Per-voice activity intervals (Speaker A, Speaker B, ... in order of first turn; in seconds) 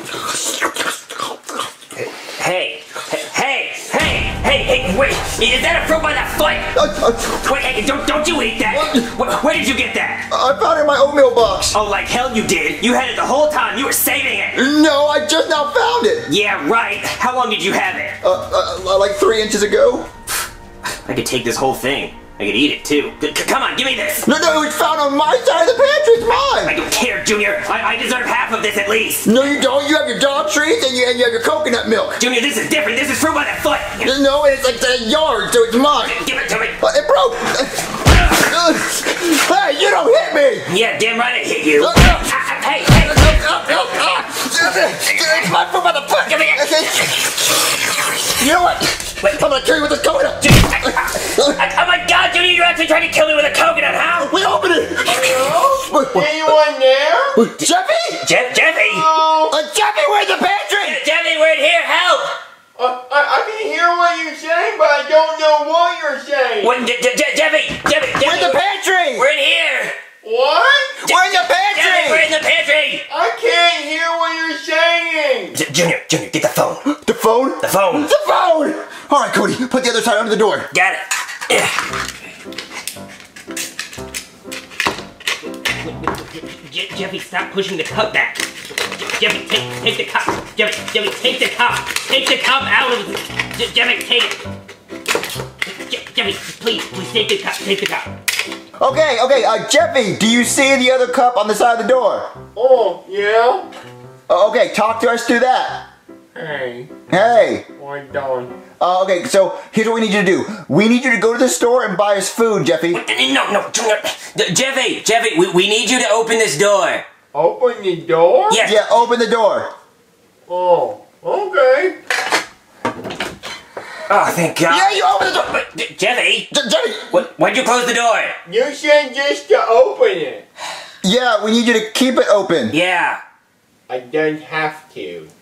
Speaker A: 2.0-10.3, 11.7-14.6, 16.3-18.2, 21.1-24.3, 26.6-29.4, 32.2-34.1, 36.0-36.8, 40.7-43.3, 44.8-45.5, 46.2-46.9, 50.4-54.4, 57.6-59.1, 60.8-62.4, 66.6-68.6, 69.2-70.0, 71.0-73.1, 75.5-76.9, 77.6-78.1, 80.7-81.8, 85.8-94.4, 95.7-98.1, 112.9-117.0, 118.5-118.8, 124.1-126.5, 127.1-128.3, 132.7-133.2
Speaker B: 6.7-7.5, 8.7-9.1, 10.3-11.8, 14.6-16.3, 18.2-20.1, 24.2-26.8, 29.2-32.2, 34.0-36.2, 36.8-40.7, 41.8-47.5, 48.2-51.6, 54.2-56.3, 57.4-58.3, 59.4-61.0, 68.2-69.3, 71.1-72.3, 76.9-80.7, 98.8-102.3, 104.3-105.9, 107.1-107.7, 108.8-113.0, 118.6-119.7, 124.7-125.6, 126.5-127.2, 131.0-132.8
Speaker C: 55.1-57.4, 58.7-59.6, 62.8-66.8, 70.2-71.0, 73.1-75.6, 102.5-103.7, 106.3-106.9, 107.8-108.6, 117.3-118.6, 120.5-122.0, 128.5-130.4, 133.9-135.3